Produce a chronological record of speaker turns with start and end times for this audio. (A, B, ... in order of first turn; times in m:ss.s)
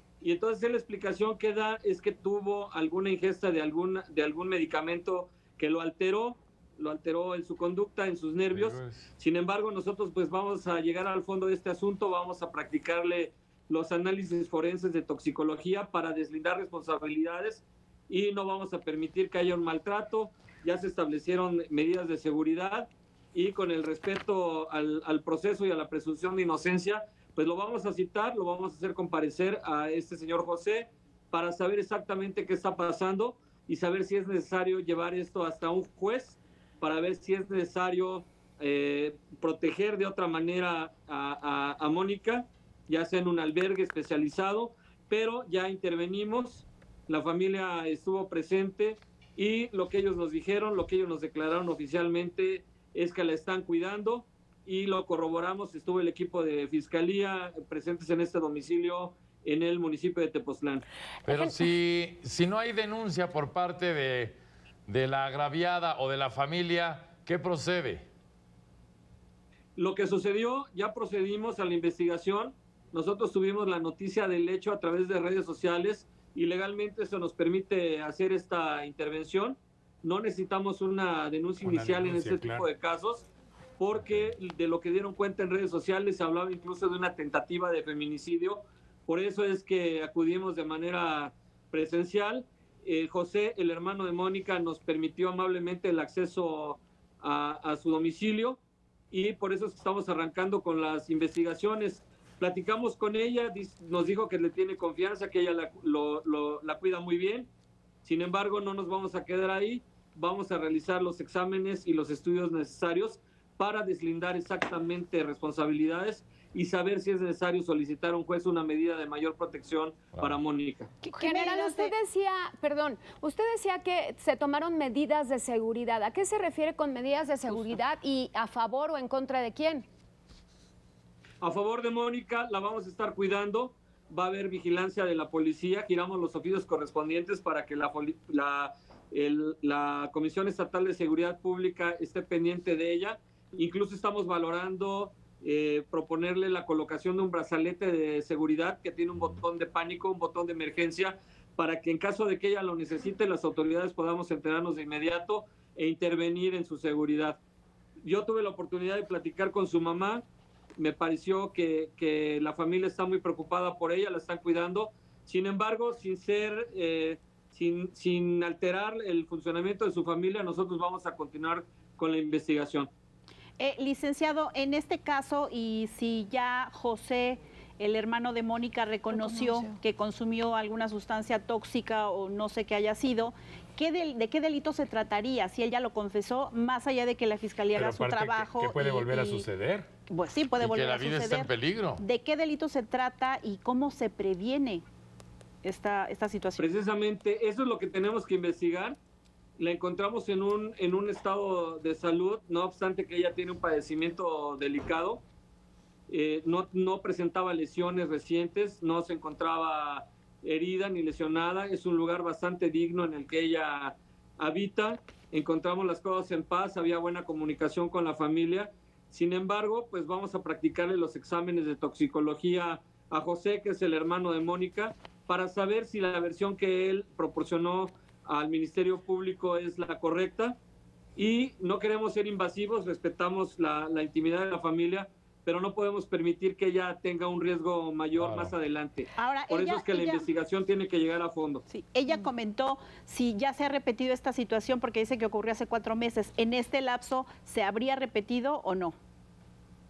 0:00.2-1:00.8 A
0:08.5-0:09.1 B
1:01.2-1:08.1 B
1:09.8-1:23.3 A
1:21.6-1:22.6 C
1:23.8-1:38.6 A
1:24.0-1:24.2 B
1:39.1-1:47.5 A
1:48.0-2:00.9 A
2:00.1-2:00.4 B
2:01.0-2:02.0 D
2:01.2-2:09.8 E
2:07.5-2:07.8 D
2:11.4-2:37.4 A
2:38.0-2:40.2 A
2:40.8-2:52.9 A
2:53.6-3:09.5 D
3:07.7-3:09.9 C
3:10.1-3:14.8 D
3:10.6-3:12.0 B
3:15.6-3:16.6 D
3:16.6-3:19.0 A
3:19.6-3:25.2 A
3:26.1-3:50.6 A
3:51.2-4:01.6 A
3:58.2-3:58.5 C
3:59.2-4:00.3 D
4:01.7-4:08.9 D